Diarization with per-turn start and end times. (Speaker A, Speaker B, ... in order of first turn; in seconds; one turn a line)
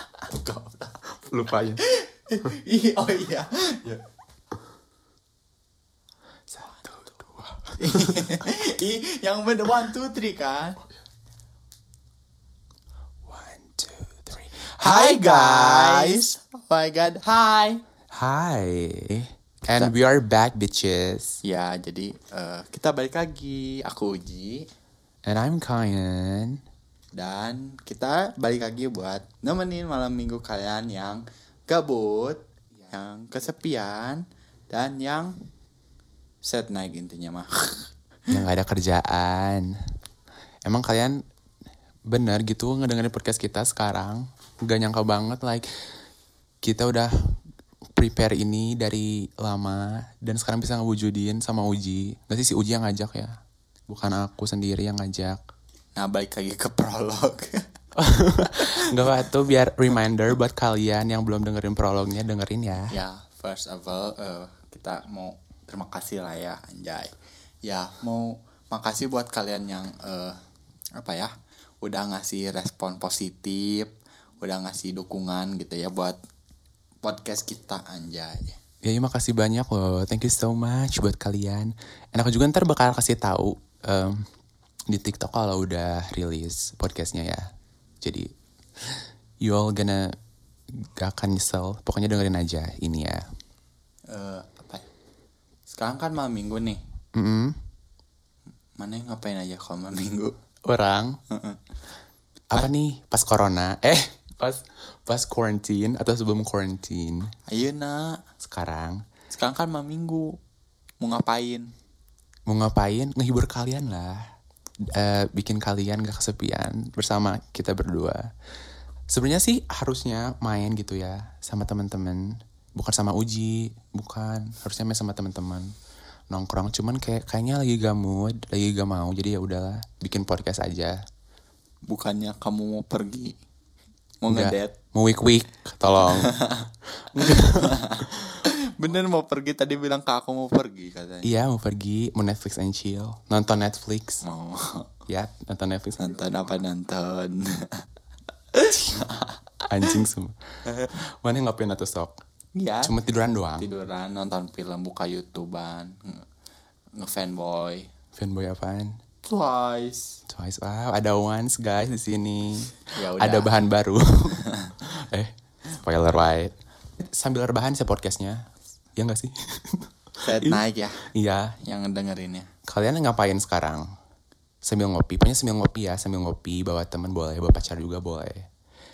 Speaker A: 0.2-1.0
Speaker B: 1.2-1.8
Speaker A: 1.8-4.0
Speaker B: 6.5-8.2
Speaker A: 7.8-10.8
Speaker B: 13.3-16.2
Speaker A: 14.6-17.8
Speaker B: 18.1-21.4
Speaker A: 21.4-24.7
Speaker B: 25.2-26.6
Speaker A: 27.1-35.3
Speaker A: 36.4-37.9
Speaker B: 38.3-39.7
Speaker B: 40.6-41.2
Speaker B: 42.1-45.7
Speaker B: 46.6-47.4
Speaker B: 48.0-53.4
Speaker B: 53.9-55.4
Speaker A: 56.0-57.6
Speaker B: 58.0-63.0
Speaker A: 58.7-59.1
Speaker A: 62.9-70.4
Speaker A: 71.0-71.3
Speaker A: 71.8-76.2
Speaker A: 77.0-78.6
Speaker B: 78.8-84.3
Speaker B: 84.9-87.4
Speaker B: 88.8-90.1
Speaker B: 90.7-93.2
Speaker A: 94.1-94.8
Speaker A: 95.7-96.8
Speaker B: 97.2-97.6
Speaker A: 98.8-100.3
Speaker B: 100.7-101.2
Speaker A: 101.3-101.6
Speaker B: 102.5-107.3
Speaker A: 107.5-108.2
Speaker B: 108.4-109.0
Speaker A: 109.3-110.3
Speaker A: 111.0-111.7
Speaker B: 112.5-114.2
Speaker B: 114.9-118.3
Speaker B: 119.1-122.2
Speaker B: 122.8-125.7
Speaker B: 126.3-130.9
Speaker A: 131.9-133.4
Speaker A: 134.2-134.8
Speaker B: 134.3-136.3
Speaker A: 136.1-141.3
Speaker B: 137.1-138.3
Speaker B: 141.2-144.2
Speaker A: 144.2-144.9
Speaker B: 145.1-146.2
Speaker A: 146.0-147.8
Speaker A: 148.5-150.0
Speaker B: 149.7-150.4
Speaker B: 150.9-152.2
Speaker A: 152.6-152.9
Speaker B: 152.8-153.7
Speaker A: 153.6-156.2
Speaker A: 157.0-157.9
Speaker B: 158.2-159.0
Speaker A: 159.2-160.2
Speaker B: 160.3-168.4
Speaker A: 163.0-163.6
Speaker A: 164.5-164.7
Speaker B: 169.0-170.6
Speaker A: 170.2-171.0
Speaker B: 171.1-171.6
Speaker A: 171.7-172.5
Speaker B: 172.7-173.8
Speaker B: 174.6-178.5